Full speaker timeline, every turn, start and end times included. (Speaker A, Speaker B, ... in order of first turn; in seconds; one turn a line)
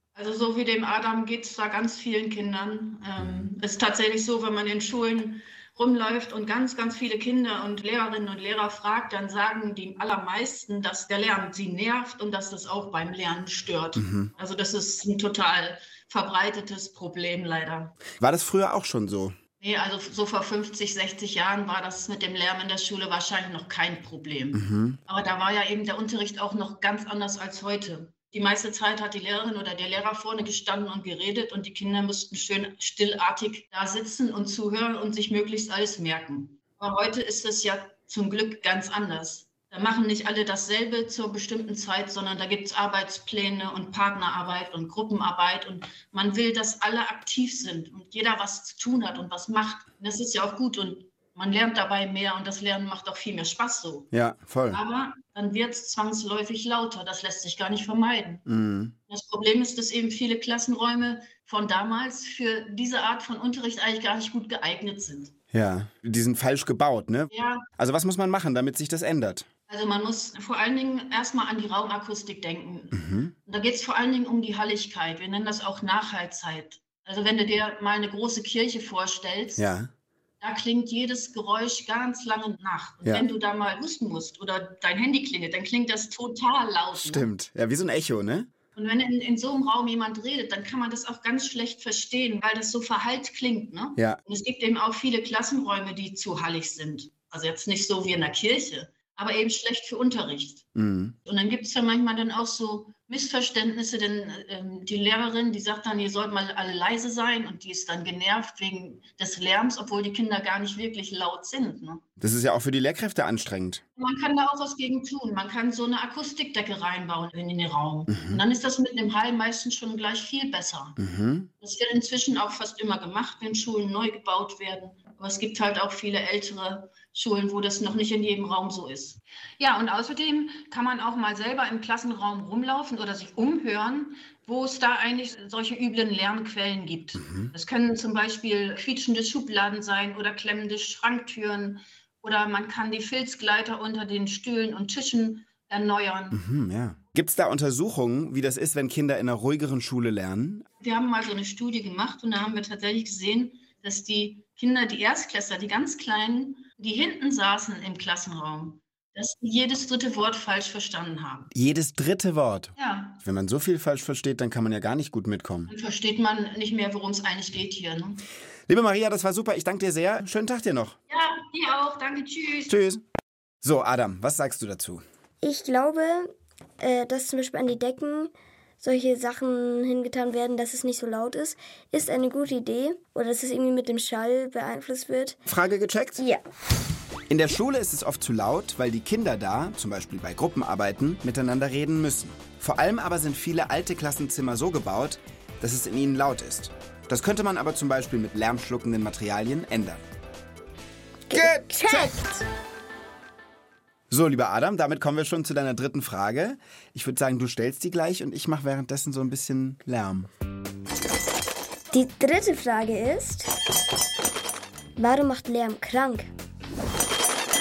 Speaker A: 0.1-18.0
Speaker B: 3.2-3.5
Speaker B: 14.0-14.3
Speaker B: 18.2-19.4
Speaker A: 19.6-54.1
Speaker B: 24.5-25.0
Speaker B: 54.1-54.8
Speaker A: 54.7-58.4
Speaker B: 58.5-59.0
Speaker A: 59.1-65.3
Speaker B: 65.5-69.5
Speaker A: 67.3-67.7
Speaker A: 69.7-79.7
Speaker B: 72.9-73.3
Speaker B: 79.6-79.9
Speaker A: 80.4-87.3
Speaker B: 83.0-83.3
Speaker B: 87.0-88.5
Speaker A: 88.8-100.7
Speaker B: 100.8-101.2
Speaker A: 101.3-112.0
Speaker B: 112.2-113.8
Speaker A: 114.0-121.0
Speaker B: 118.1-118.4
Speaker B: 121.0-121.5
Speaker A: 121.6-146.4
Speaker B: 137.2-137.5
Speaker B: 146.3-150.7
Speaker A: 150.8-161.5
Speaker B: 161.5-165.7
Speaker A: 162.8-163.2
Speaker A: 165.7-168.2
Speaker B: 168.7-171.0
Speaker A: 171.1-172.7
Speaker B: 172.7-173.0
Speaker B: 173.6-175.0
Speaker C: 175.4-185.4
Speaker B: 185.5-186.2
Speaker C: 186.2-186.4
Speaker B: 187.3-200.0
Speaker C: 201.3-202.4
Speaker B: 201.3-202.2
Speaker B: 204.1-210.3
Speaker C: 211.9-213.5
Speaker C: 215.0-216.3